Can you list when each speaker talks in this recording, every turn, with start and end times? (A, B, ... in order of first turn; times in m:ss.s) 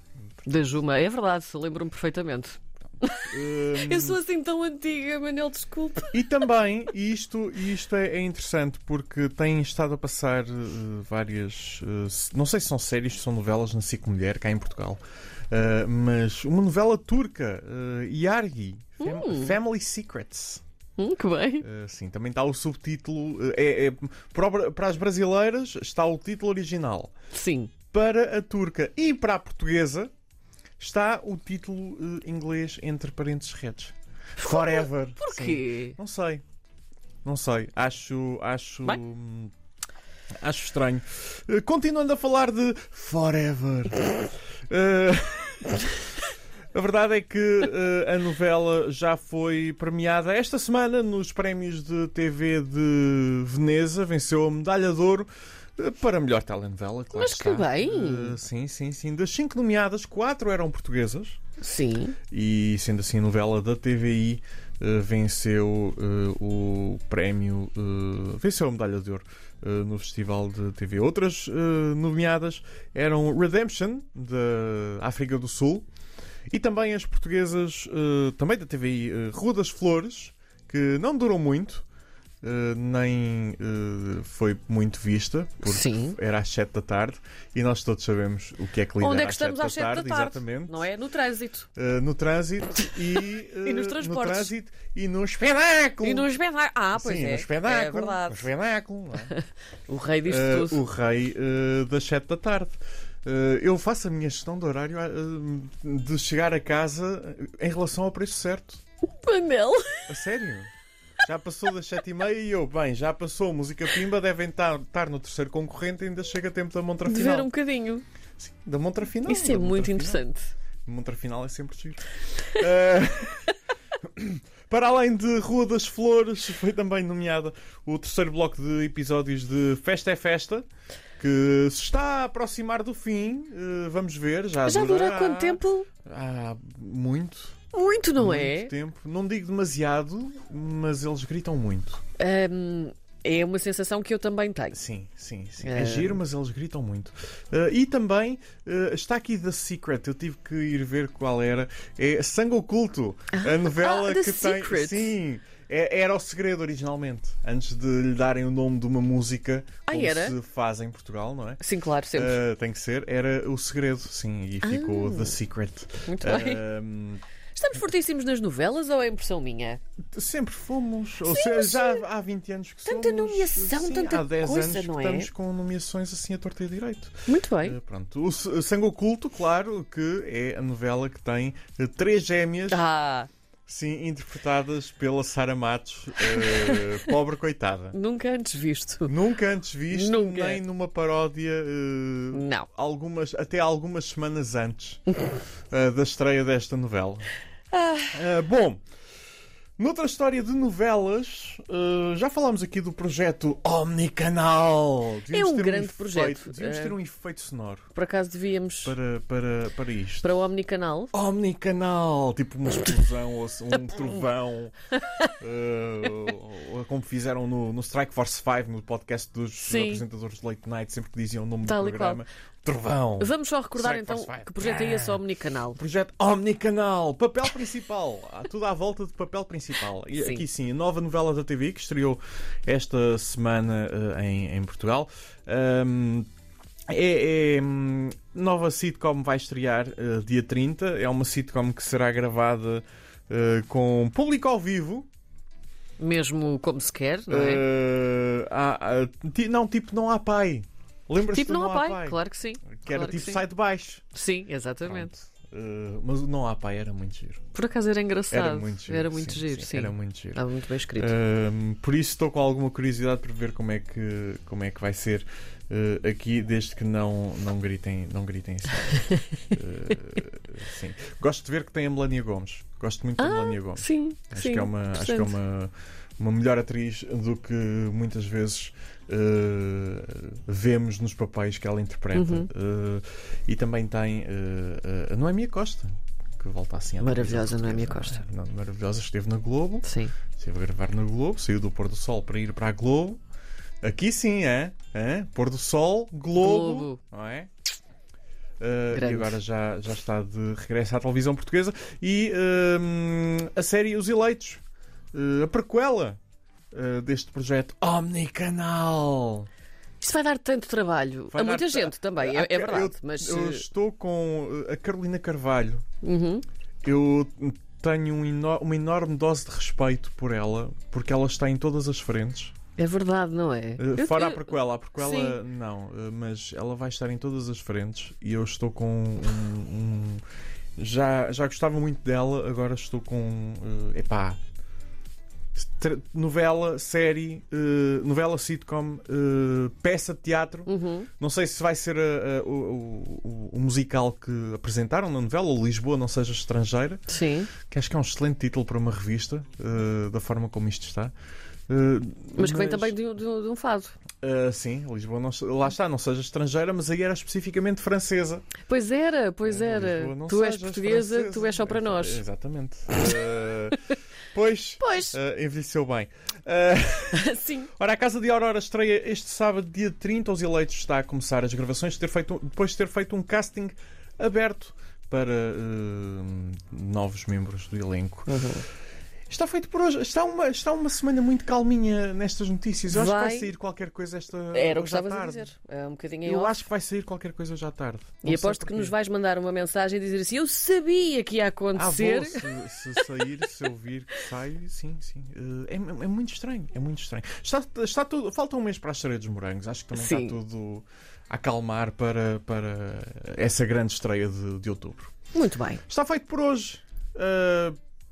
0:00.4-0:06.2 A
0:03.1-0:04.2 B
0:06.1-0:20.6 B
0:19.0-0:19.6 A
0:21.0-0:21.6 A
0:21.6-0:27.1 B
0:27.3-0:27.7 A
0:27.9-0:30.1 B
0:30.8-0:36.4 B
0:34.4-0:36.0 A
0:37.2-0:39.5 B
0:40.4-0:46.2 B
0:46.7-1:01.4 B
0:57.1-0:58.4 A
1:01.6-1:02.2 A
1:02.3-1:15.8 B
1:16.5-1:21.8 B
1:22.4-1:30.9 B
1:25.6-1:26.2 A
1:29.0-1:31.7 A
1:31.7-1:36.3 B
1:33.6-1:34.5 A
1:36.0-1:38.5 A
1:36.9-1:39.3 B
1:39.3-1:40.8 A
1:40.2-1:48.8 B
1:49.2-1:50.0 A
1:50.1-1:50.7 B
1:51.2-1:57.5 B
1:57.0-1:58.0 A
1:58.4-2:00.2 B
1:59.2-2:00.5 A
2:00.8-2:10.6 B
2:11.2-2:17.6 B
2:14.6-2:15.9 A
2:17.7-2:18.7 A
2:18.2-2:22.0 B
2:22.2-2:24.8 A
2:24.7-2:41.6 B
2:25.6-2:26.2 A
2:33.3-2:35.1 A
2:39.9-2:40.4 A
2:41.6-2:42.4 A
2:42.1-2:47.2 B
2:44.6-2:45.4 A
2:46.0-2:46.6 A
2:47.5-2:49.8 A
2:50.1-3:02.8 B
2:51.2-2:52.0 A
2:52.8-2:55.3 A
2:57.2-2:57.8 A
3:02.7-3:03.3 A
3:03.7-3:08.0 B
3:06.2-3:06.9 A
3:07.9-3:09.2 A
3:09.1-3:15.2 B
3:09.9-3:10.6 A
3:12.3-3:12.7 A
3:15.7-3:17.3 B
3:17.7-3:18.2 A
3:18.1-3:18.8 B
3:19.8-3:27.9 B
3:25.3-3:27.0 A
3:27.9-3:28.9 A
3:28.8-3:30.4 B
3:30.2-3:31.1 A
3:31.1-3:34.7 B
3:35.0-3:35.3 A
3:35.4-3:45.2 B
3:39.6-3:40.0 A
3:41.6-3:42.2 A
3:43.2-3:45.8 A
3:45.7-3:56.3 B
3:50.1-3:50.4 A
3:56.9-4:05.1 B
4:06.0-4:07.6 A
4:07.3-4:14.0 B
4:11.3-4:13.4 A
4:14.1-4:15.1 A
4:14.8-4:17.4 B
4:17.5-4:21.1 A
4:18.3-4:20.4 B
4:21.0-4:53.2 B
4:33.2-4:35.4 A
4:42.1-4:42.5 A
4:47.0-4:48.2 A
4:49.8-4:50.1 A
4:53.8-4:57.5 B
4:56.3-4:57.0 A
4:58.6-5:04.6 B
4:58.9-4:59.4 A
5:05.1-5:06.2 B
5:06.7-5:09.5 B
5:10.0-5:13.6 A
5:11.3-5:15.8 B
5:16.0-5:16.4 A
5:16.8-5:22.5 B
5:22.8-5:25.4 A
5:23.8-5:30.2 B
5:30.8-5:34.4 B
5:35.6-5:47.0 B
5:40.6-5:41.1 A
5:47.1-5:47.5 A
5:47.6-5:51.1 B
5:51.7-5:53.0 B
5:52.4-5:53.9 A
5:54.2-5:58.5 B
5:58.6-6:02.2 A
5:59.4-6:18.4 B
6:04.8-6:05.2 A
6:07.1-6:07.7 A
6:18.3-6:18.6 A
6:19.3-6:25.5 B
6:22.9-6:23.5 A
6:24.5-6:26.6 A
6:26.2-6:28.9 B
6:28.2-6:33.1 A
6:31.7-6:45.1 B
6:39.9-6:40.4 A
6:45.3-6:45.8 A
6:45.8-6:47.8 B